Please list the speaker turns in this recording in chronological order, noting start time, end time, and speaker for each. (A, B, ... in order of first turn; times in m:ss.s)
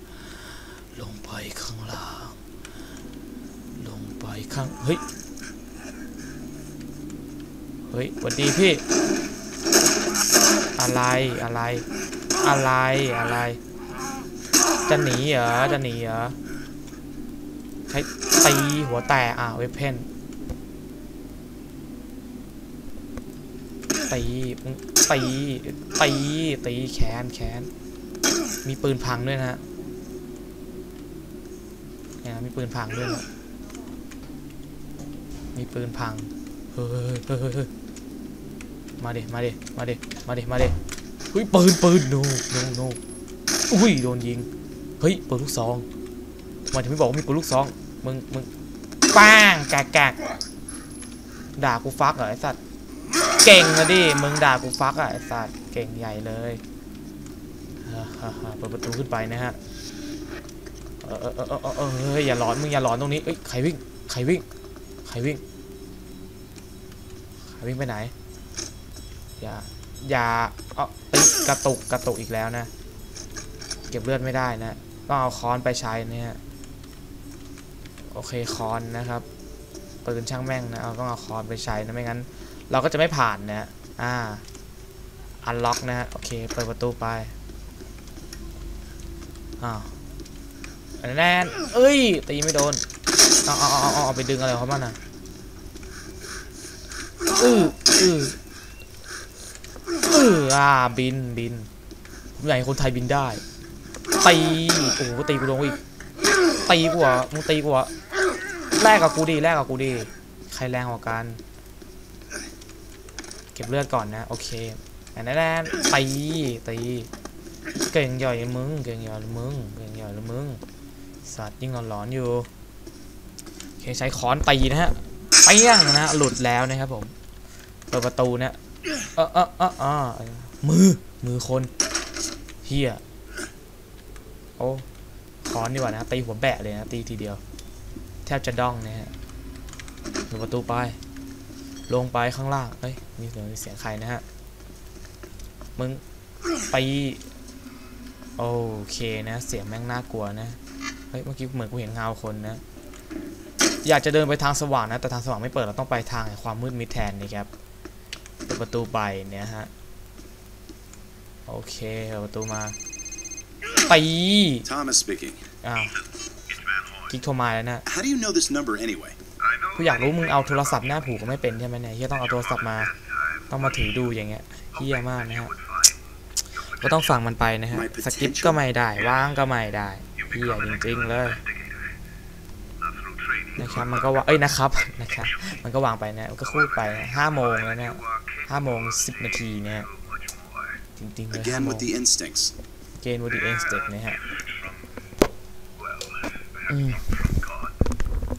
0:00.2-0:02.4 A
0:03.8-0:05.0 A
0:07.9-0:08.8 A
0:10.8-0:11.9 A
0:12.4-0:13.6 A
0:14.9-0:16.4 A
0:17.9-0:20.1 A
0:24.1-0:27.7 A
0:28.6-0:29.6 A
0:32.2-0:33.2 A
0:35.5-0:37.7 A
0:39.0-0:40.8 A
0:41.3-0:43.0 A
0:43.7-0:44.5 A
0:45.0-0:45.8 A
0:46.6-0:48.5 A
0:49.1-0:50.2 A
0:51.6-0:52.6 A
0:53.4-0:56.6 A
0:57.8-0:59.6 A
1:01.0-1:04.4 A
1:05.0-1:05.4 A
1:07.5-1:08.1 A
1:09.4-1:12.7 A
1:13.9-1:16.4 A
1:18.0-1:19.2 A
1:20.0-1:24.4 A
1:25.4-1:27.3 A
1:29.6-1:30.0 A
1:31.0-1:32.8 A
1:33.4-1:35.0 A
1:37.3-1:38.4 A
1:40.0-1:41.7 A
1:42.4-1:43.4 A
1:44.2-1:45.8 A
1:46.6-1:47.9 A
1:48.7-1:51.4 A
1:53.5-1:57.1 A
1:57.9-2:00.6 A
2:01.2-2:02.5 A
2:03.8-2:07.1 A
2:07.9-2:08.6 A
2:09.1-2:11.7 A
2:12.6-2:13.0 A
2:14.6-2:14.8 A
2:15.4-2:17.4 A
2:18.2-2:19.1 A
2:20.3-2:21.0 A
2:21.9-2:24.2 A
2:25.8-2:26.0 A
2:26.7-2:27.2 A
2:28.4-2:30.6 A
2:31.1-2:32.6 A
2:33.8-2:37.5 A
2:38.4-2:39.7 A
2:41.4-2:42.8 A
2:43.8-2:44.7 A
2:44.6-2:45.4 B
2:45.6-2:46.0 A
2:47.1-2:47.8 A
2:47.8-2:49.2 B
2:49.4-2:51.1 C
2:49.8-2:52.9 A
2:52.4-2:53.6 C
2:53.5-2:55.5 A
2:54.8-2:56.0 C
2:56.6-3:01.4 A
2:57.7-2:58.6 B
3:00.2-3:01.7 C
3:02.8-3:04.1 C
3:03.6-3:09.9 A
3:06.7-3:09.2 C
3:09.9-3:10.6 C
3:11.0-3:11.9 A
3:11.3-3:12.5 B
3:13.0-3:14.2 A
3:15.8-3:17.7 C
3:16.7-3:17.1 A